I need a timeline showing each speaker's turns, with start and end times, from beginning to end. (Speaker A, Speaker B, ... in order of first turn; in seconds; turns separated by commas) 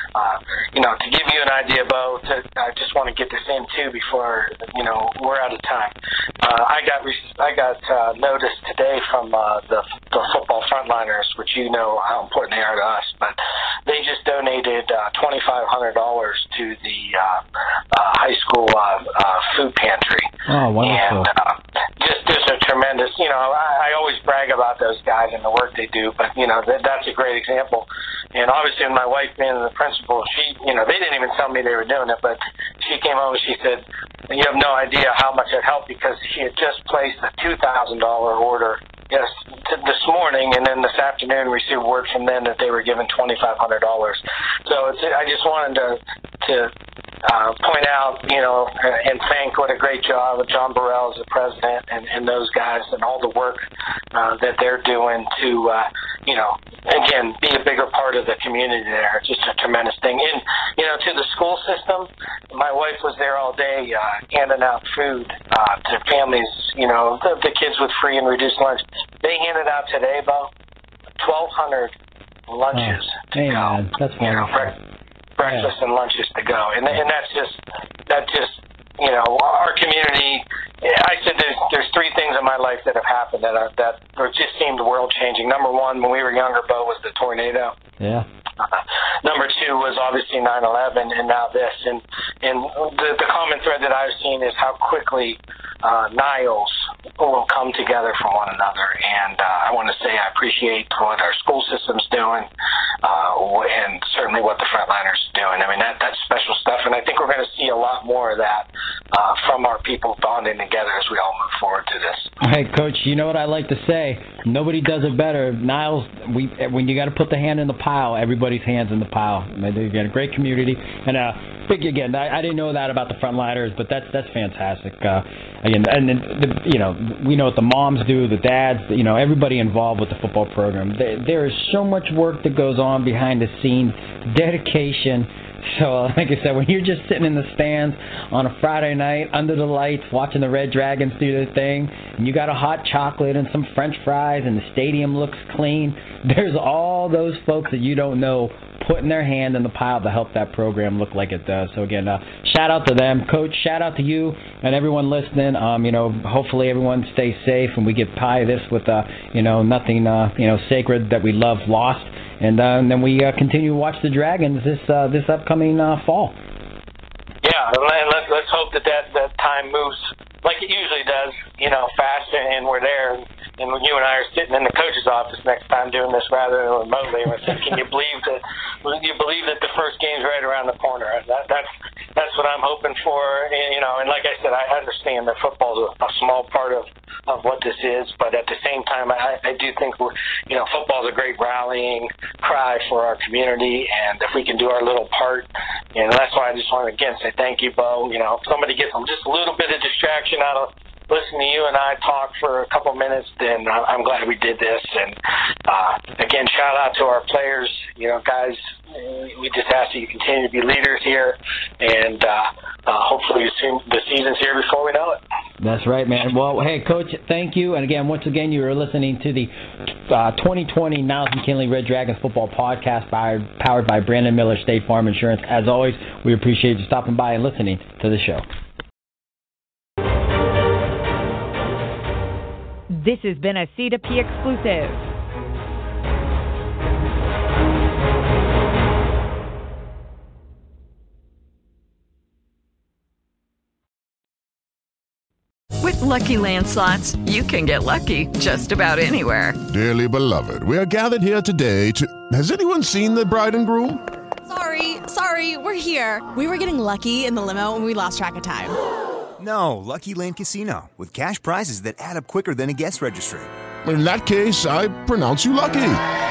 Speaker A: 0.1-20.3, Speaker B: 20.5-21.3, Speaker A: 20.8-46.7, Speaker A: 47.2-70.5, Speaker A: 71.2-72.0, Speaker A: 72.5-74.7, Speaker B: 72.7-74.8, Speaker A: 75.4-87.8, Speaker B: 88.0-88.3, Speaker A: 88.6-102.5, Speaker A: 103.0-112.3, Speaker B: 112.4-166.4, Speaker A: 167.4-215.2, Speaker B: 215.6-228.4, Speaker C: 232.9-235.0, Speaker D: 245.8-249.6, Speaker E: 249.7-254.0, Speaker F: 254.5-258.8, Speaker G: 259.4-263.5, Speaker E: 263.9-266.0